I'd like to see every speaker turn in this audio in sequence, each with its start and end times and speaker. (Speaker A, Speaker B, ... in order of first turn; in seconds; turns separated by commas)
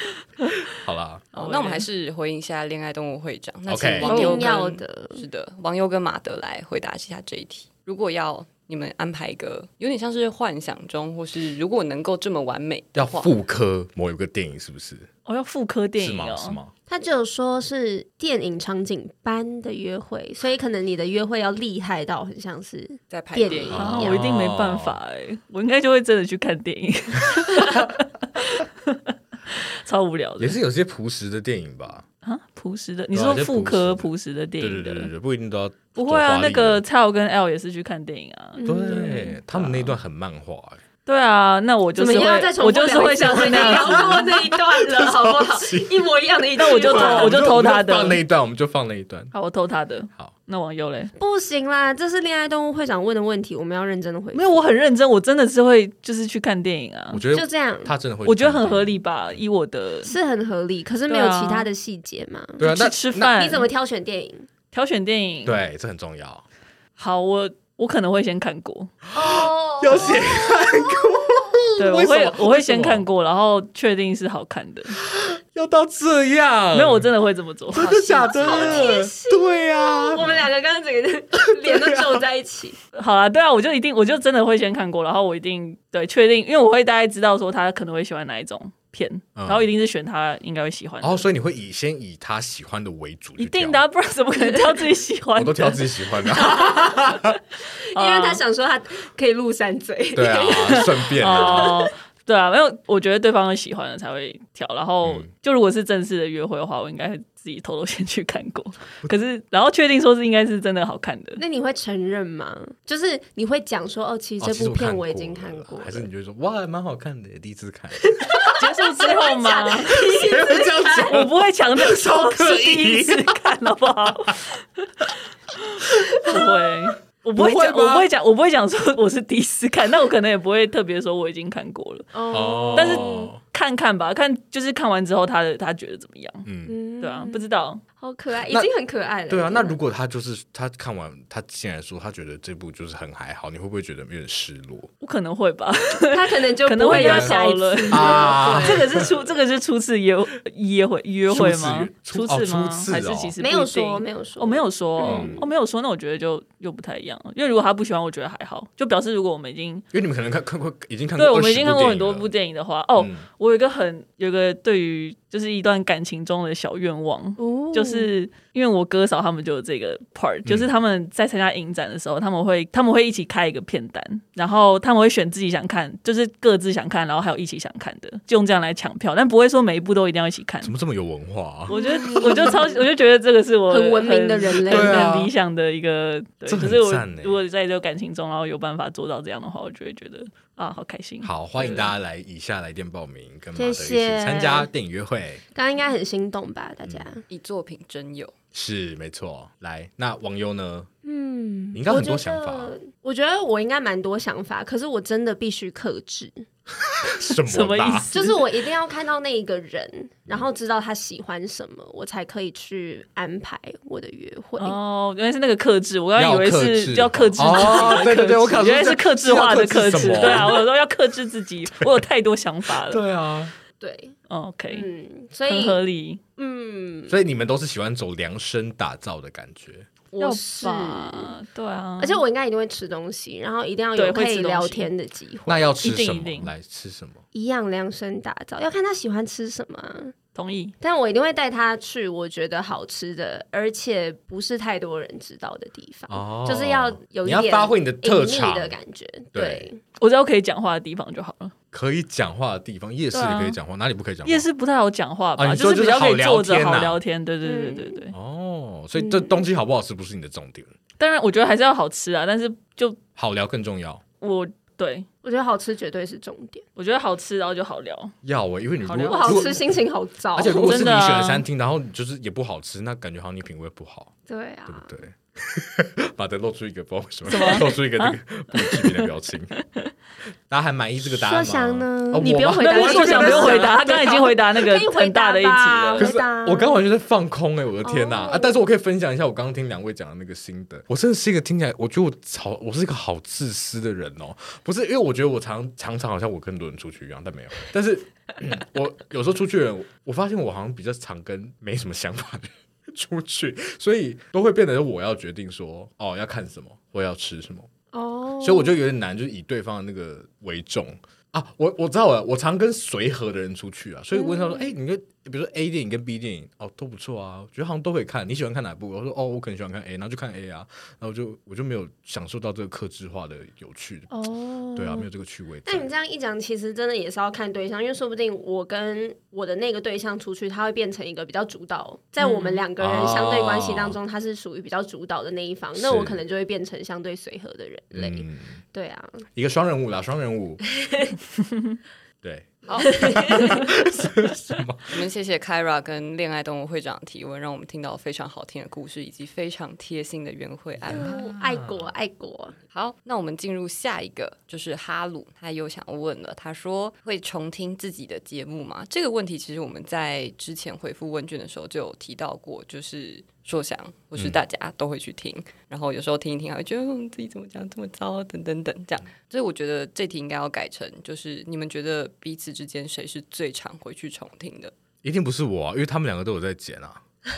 Speaker A: 0.7-1.3, Speaker B: 1.3-13.3, Speaker C: 1.4-1.9, Speaker A: 3.7-4.4, Speaker D: 4.0-5.2, Speaker A: 12.9-15.1, Speaker C: 15.3-16.6, Speaker A: 16.0-16.7, Speaker D: 16.9-24.1, Speaker B: 23.1-24.2, Speaker A: 23.7-25.0, Speaker C: 23.7-30.6, Speaker A: 30.4-32.0, Speaker C: 32.2-35.1, Speaker A: 33.1-34.1, Speaker A: 34.6-36.8, Speaker C: 36.0-40.0, Speaker D: 38.6-39.4, Speaker A: 38.6-40.8, Speaker C: 41.1-44.3, Speaker D: 42.0-47.5, Speaker A: 43.3-46.0, Speaker C: 46.6-48.2, Speaker A: 46.6-49.3, Speaker C: 49.3-51.1, Speaker D: 51.2-54.6, Speaker C: 54.3-57.2, Speaker A: 57.1-59.0, Speaker D: 57.3-57.9, Speaker C: 58.3-60.1, Speaker D: 60.0-62.6, Speaker C: 61.1-61.7, Speaker A: 62.6-63.4, Speaker C: 62.6-63.7, Speaker D: 63.2-64.5, Speaker C: 64.7-65.6, Speaker A: 65.5-66.4, Speaker C: 67.0-68.9, Speaker D: 69.1-71.4, Speaker A: 69.1-73.0, Speaker C: 71.8-75.0, Speaker A: 75.0-77.1, Speaker C: 76.7-77.9, Speaker A: 77.7-80.5, Speaker B: 77.7-79.0, Speaker D: 78.4-82.8, Speaker A: 81.6-82.1, Speaker C: 82.9-91.2, Speaker A: 89.4-89.7, Speaker A: 91.0-93.8, Speaker C: 93.4-95.9, Speaker D: 94.4-94.8, Speaker A: 95.4-97.4, Speaker D: 96.4-97.0, Speaker D: 97.9-101.9, Speaker C: 98.0-98.4, Speaker A: 100.1-101.8, Speaker C: 101.2-111.4, Speaker A: 105.0-105.3, Speaker D: 111.4-116.1, Speaker A: 114.4-118.6, Speaker D: 118.0-121.2, Speaker C: 118.5-120.2, Speaker A: 120.2-123.4, Speaker C: 121.0-132.1, Speaker A: 126.0-126.5, Speaker A: 127.3-128.1, Speaker D: 132.1-133.3, Speaker A: 132.3-133.4, Speaker C: 132.7-136.5, Speaker A: 136.4-136.8, Speaker D: 136.7-137.4, Speaker C: 137.0-137.8, Speaker D: 138.0-139.8, Speaker A: 139.3-144.9, Speaker C: 145.0-159.8, Speaker D: 146.1-149.0, Speaker A: 146.9-147.4, Speaker A: 147.9-149.3, Speaker A: 151.3-153.3, Speaker D: 153.4-155.4, Speaker A: 155.0-155.4, Speaker A: 159.9-162.3, Speaker C: 161.2-180.7, Speaker A: 163.0-163.2, Speaker D: 167.4-168.1, Speaker A: 180.6-182.5, Speaker C: 181.7-191.9, Speaker D: 181.7-182.8, Speaker D: 183.7-185.1, Speaker A: 184.7-185.3, Speaker A: 186.5-187.4, Speaker A: 191.2-195.4, Speaker D: 193.6-194.7, Speaker D: 195.5-197.2, Speaker B: 197.3-198.3, Speaker A: 198.5-200.9, Speaker D: 201.0-206.4, Speaker A: 201.7-202.8, Speaker A: 206.9-208.1, Speaker C: 207.5-208.4, Speaker D: 208.1-214.8, Speaker C: 214.6-223.0, Speaker A: 216.2-220.6, Speaker D: 217.7-218.0, Speaker A: 222.9-223.5, Speaker D: 223.8-224.2, Speaker C: 224.3-224.9, Speaker D: 224.7-225.8, Speaker C: 225.5-226.2, Speaker D: 226.4-227.2, Speaker A: 227.1-229.9, Speaker D: 230.1-231.4, Speaker C: 230.2-232.2, Speaker D: 232.0-235.7, Speaker C: 234.0-234.9, Speaker A: 235.5-237.2, Speaker C: 235.8-236.5, Speaker D: 237.3-240.2, Speaker C: 240.3-240.7, Speaker D: 240.8-249.8, Speaker A: 246.1-248.8, Speaker A: 249.3-249.7, Speaker C: 250.0-251.5, Speaker A: 251.7-254.4, Speaker C: 253.1-253.6, Speaker C: 254.2-258.1, Speaker A: 255.4-257.0, Speaker D: 257.4-258.0, Speaker A: 258.1-260.7, Speaker D: 259.0-259.4, Speaker C: 261.0-263.0, Speaker A: 263.2-264.0, Speaker C: 264.2-265.1, Speaker D: 265.2-266.6, Speaker C: 266.8-268.1, Speaker A: 268.2-269.6, Speaker C: 268.9-269.6, Speaker D: 269.1-270.9, Speaker A: 270.4-274.1, Speaker C: 270.5-271.4, Speaker D: 274.3-274.9, Speaker A: 274.7-279.5, Speaker C: 277.3-279.9, Speaker A: 280.5-283.9, Speaker D: 281.0-286.8, Speaker C: 282.6-286.1, Speaker A: 286.0-307.7, Speaker D: 287.8-288.6, Speaker D: 307.9-308.8, Speaker A: 308.4-324.1, Speaker D: 314.1-314.8, Speaker D: 324.1-325.1, Speaker A: 324.8-325.9, Speaker D: 325.6-339.2, Speaker C: 332.2-332.6, Speaker A: 332.8-334.0, Speaker A: 335.8-336.2, Speaker A: 337.9-338.6, Speaker A: 339.4-340.6, Speaker D: 340.8-341.1, Speaker A: 342.2-345.0, Speaker B: 342.6-343.0, Speaker D: 342.8-343.7, Speaker B: 344.9-351.2, Speaker A: 350.9-351.9, Speaker D: 350.9-352.6, Speaker B: 352.7-374.7, Speaker A: 375.0-377.0